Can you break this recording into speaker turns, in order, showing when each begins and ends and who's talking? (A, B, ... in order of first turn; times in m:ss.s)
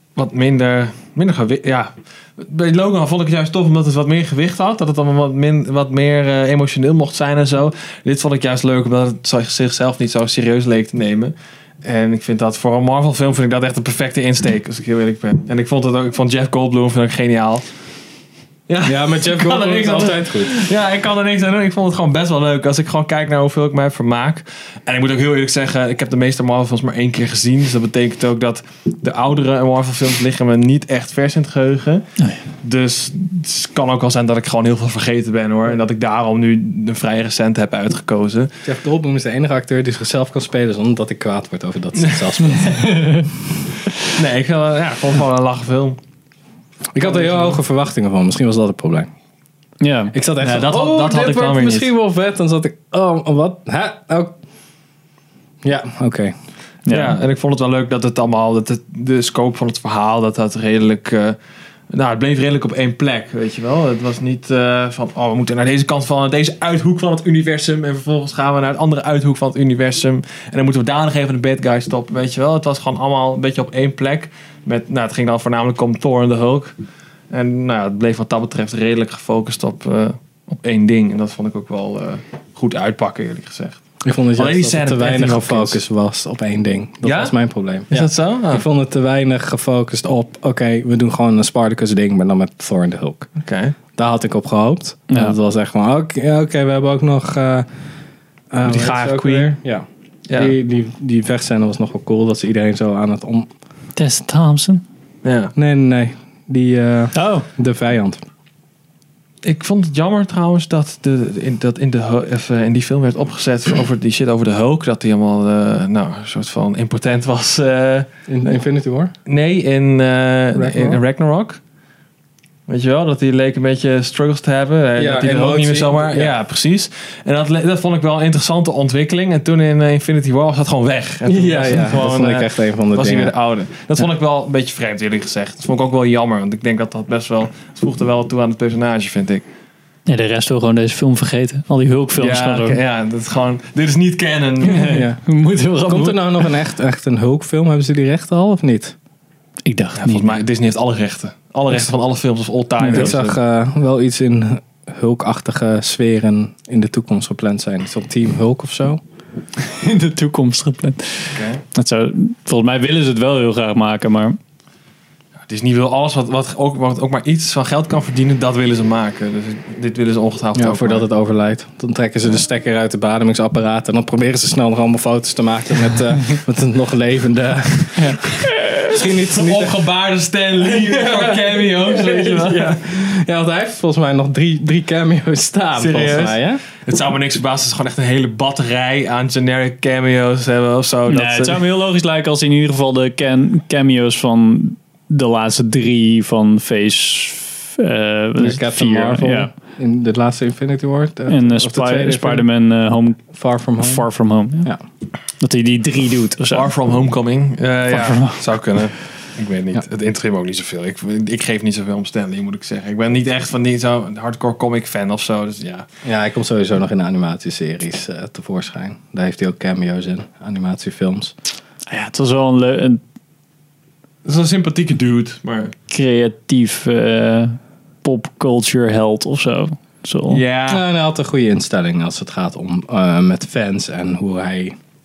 0:00.2-0:17.6 A
0:18.7-0:32.1 A
0:18.8-0:20.7 B
0:32.6-0:38.5 A
0:38.6-0:43.3 B
0:42.0-0:42.2 A
0:42.7-0:43.2 C
0:44.0-0:46.0 A
0:46.9-0:49.1 B
0:47.0-0:47.6 A
0:49.8-0:50.1 C
0:50.1-0:54.4 B
0:50.4-0:51.9 A
0:55.6-0:56.3 B
0:56.9-0:57.2 C
0:56.9-1:01.4 A
1:01.9-1:16.7 A
1:17.3-1:23.8 A
1:24.0-1:33.3 B
1:24.3-1:25.8 A
1:27.0-1:27.4 A
1:27.9-1:28.6 A
1:33.4-1:33.7 A
1:34.0-1:37.7 B
1:35.1-1:35.4 C
1:38.5-1:43.5 B
1:38.6-1:39.5 A
1:40.3-1:40.5 A
1:44.0-1:44.8 C
1:45.2-1:45.5 A
1:45.6-1:48.2 B
1:47.1-1:47.4 C
1:49.4-1:58.1 A
1:58.3-1:59.1 B
1:59.3-2:01.6 A
2:00.5-2:01.0 B
2:02.7-2:19.4 A
2:05.0-2:06.3 B
2:11.2-2:13.3 B
2:20.1-2:22.8 C
2:22.2-2:25.0 A
2:24.7-2:26.5 C
2:24.7-2:25.2 B
2:25.8-2:28.9 B
2:29.6-2:30.4 C
2:30.0-2:33.4 A
2:32.8-2:39.0 B
2:39.6-2:44.4 C
2:41.3-2:41.6 A
2:45.5-2:51.0 A
2:50.5-2:59.8 B
2:59.3-3:02.8 A
3:00.6-3:06.6 B
3:05.8-3:11.6 A
3:11.1-3:19.5 C
3:18.4-3:22.5 B
3:21.3-3:23.2 C
3:23.3-3:24.1 B
3:23.8-3:24.7 C
3:25.4-3:26.7 C
3:26.5-3:35.8 A
3:27.9-3:28.4 C
3:36.0-3:41.3 B
3:41.9-3:43.0 C
3:44.2-3:45.7 A
3:45.9-3:50.4 C
3:50.3-3:50.8 A
3:50.7-3:54.8 B